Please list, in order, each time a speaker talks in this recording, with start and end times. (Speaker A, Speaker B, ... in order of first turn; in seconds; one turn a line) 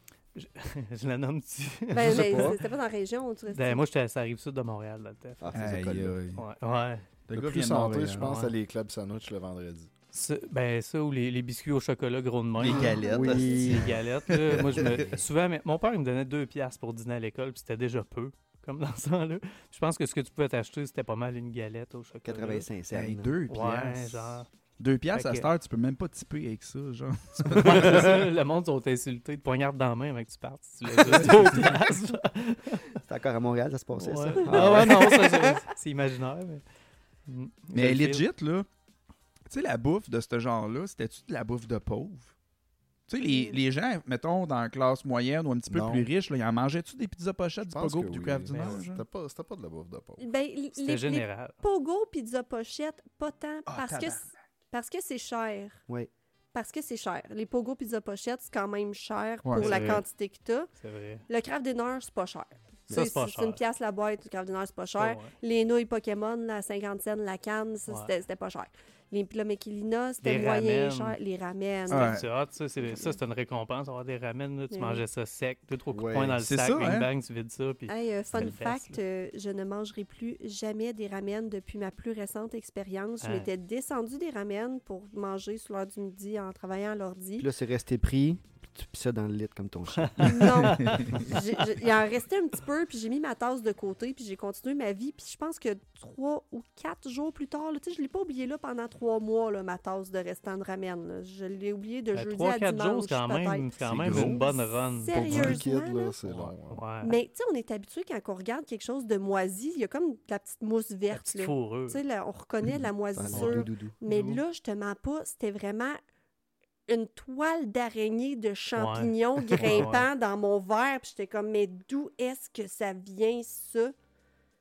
Speaker A: 0.3-2.6
Speaker B: 1.9-3.8
Speaker C: 1.9-2.6
Speaker A: 3.5-5.5
Speaker C: 5.4-6.2
Speaker D: 5.5-6.4
Speaker A: 6.4-7.1
Speaker D: 7.3-8.5
Speaker E: 7.3-9.9
Speaker A: 8.2-8.5
Speaker A: 10.1-13.0
Speaker D: 12.6-15.1
Speaker C: 12.7-14.0
Speaker B: 12.7-13.8
Speaker A: 13.5-22.7
Speaker C: 22.2-23.3
Speaker D: 22.9-28.2
Speaker A: 23.5-24.5
Speaker A: 25.1-25.5
Speaker A: 27.6-33.0
Speaker C: 27.6-27.9
Speaker D: 31.1-31.7
Speaker C: 33.0-35.6
Speaker A: 34.0-36.6
Speaker A: 37.3-38.2
Speaker D: 37.7-38.7
Speaker D: 39.5-42.3
Speaker D: 43.1-49.0
Speaker B: 43.2-43.6
Speaker E: 45.7-46.0
Speaker E: 47.7-50.3
Speaker A: 48.5-48.8
Speaker B: 50.2-55.8
Speaker A: 50.8-51.6
Speaker D: 53.7-54.3
Speaker B: 56.5-60.7
Speaker D: 59.5-59.9
Speaker A: 59.6-60.0
Speaker A: 60.8-61.2
Speaker B: 61.3-72.2
Speaker A: 62.9-63.6
Speaker A: 65.0-65.3
Speaker A: 67.9-68.1
Speaker A: 70.2-71.2
Speaker A: 71.9-79.0
Speaker D: 71.9-72.3
Speaker B: 72.8-73.2
Speaker B: 74.7-75.0
Speaker C: 75.9-76.4
Speaker D: 76.4-77.1
Speaker B: 77.9-87.5
Speaker A: 83.2-83.5
Speaker C: 87.4-90.5
Speaker A: 90.0-91.3
Speaker B: 90.2-106.2
Speaker D: 90.7-91.2
Speaker A: 102.1-105.6
Speaker D: 103.8-104.4
Speaker D: 105.1-105.6
Speaker E: 105.1-106.8
Speaker A: 106.2-107.2
Speaker B: 107.0-116.0
Speaker A: 111.1-112.0
Speaker C: 113.1-114.0
Speaker A: 113.3-114.3
Speaker B: 116.9-124.0
Speaker A: 118.8-120.1